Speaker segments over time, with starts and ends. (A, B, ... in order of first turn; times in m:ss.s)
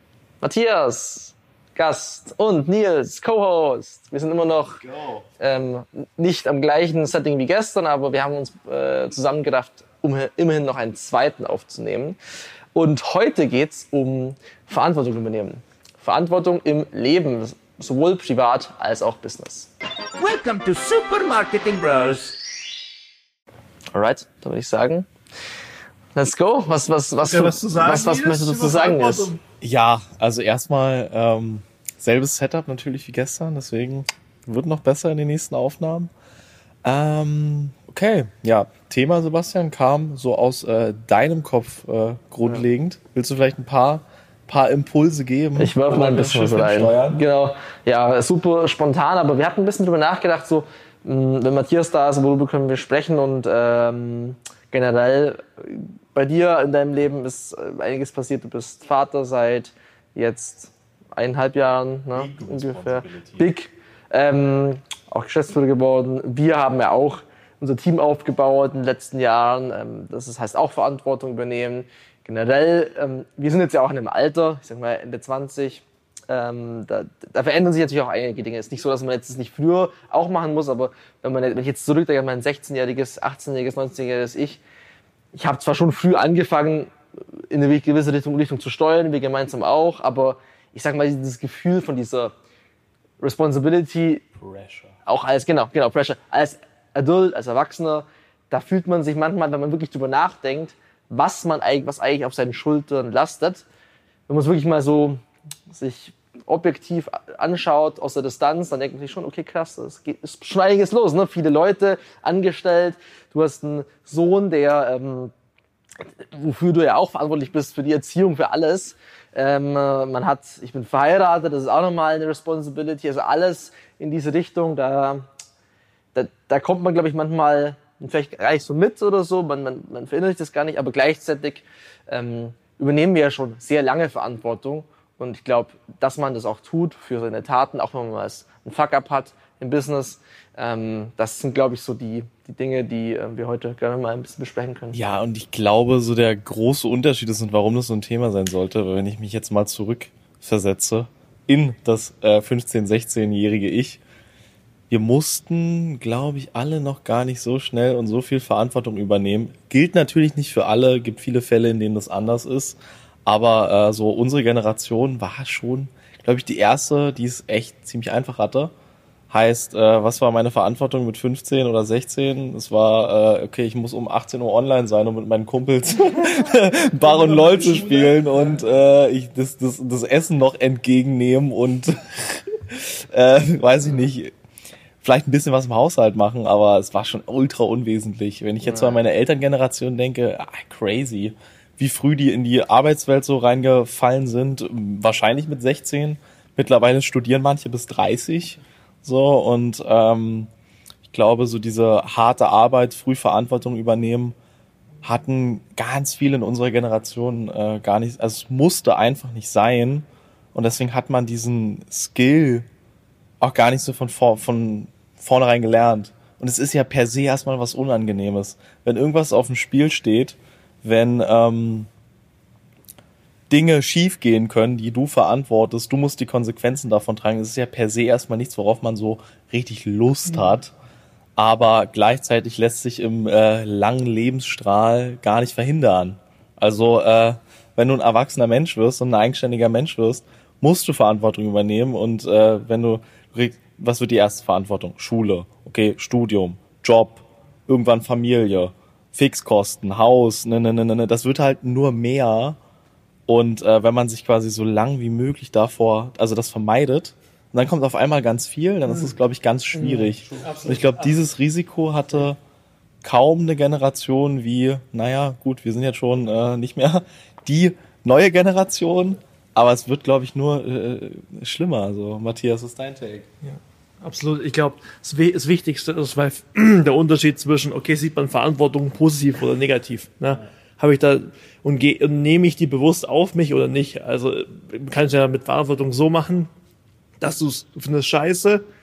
0:00.4-0:04.8 A
0:04.8-0:05.3 B
0:05.4-0:12.2 A
0:12.7-0:19.7 A
0:20.2-0:22.4 C
0:23.9-0:25.1 A
0:26.1-0:29.3 A
0:27.2-0:29.4 D
0:29.6-0:36.1 B
0:36.8-0:47.2 B
0:45.6-1:24.6 A
1:02.1-1:03.5 B
1:25.3-1:32.3 A
1:33.2-1:34.2 A
1:34.4-1:34.9 B
1:35.0-1:43.6 A
1:44.3-1:55.3 A
1:56.2-2:05.3 A
2:06.1-2:25.0 A
2:24.9-2:34.0 B
2:34.9-2:48.7 B
2:49.3-3:04.3 B
2:57.0-2:58.6 D
3:05.0-3:20.5 B
3:21.1-3:24.3 B
3:25.0-3:32.7 B
3:33.4-3:41.9 B
3:43.5-3:50.7 B
3:51.4-4:12.6 B
4:13.3-4:22.4 B
4:19.8-4:21.3 D
4:23.0-4:33.3 B
4:33.4-4:46.5 D
4:47.2-4:48.6 D